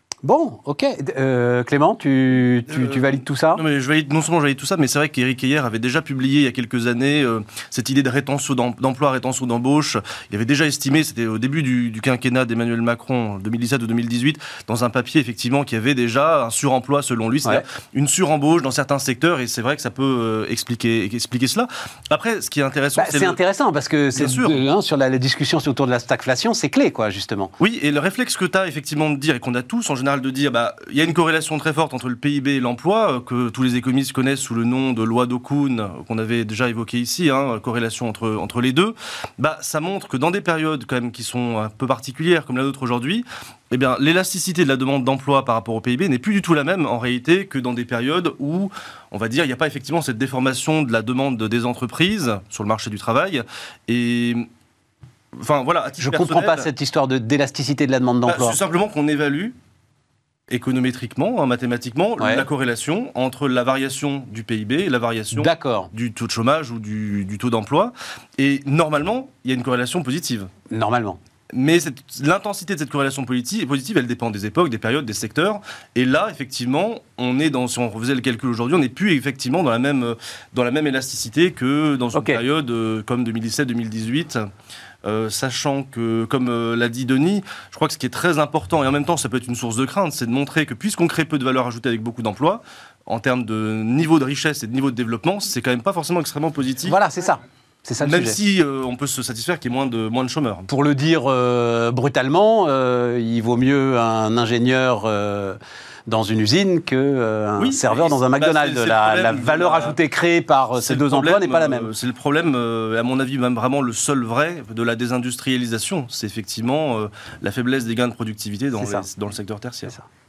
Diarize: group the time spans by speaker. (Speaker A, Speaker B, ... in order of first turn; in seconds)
Speaker A: 0.2-3.6, 23.0-27.5, 56.0-58.6, 62.2-62.5, 65.4-65.9, 70.7-71.2, 82.1-82.4, 96.9-98.4, 100.7-111.9, 118.8-119.0
Speaker B: 2.7-23.4, 24.2-24.6, 27.6-54.5, 55.4-56.7, 58.3-59.5, 60.5-70.5, 71.5-84.5, 85.0-97.0, 98.0-100.7, 107.6-110.0, 110.8-120.0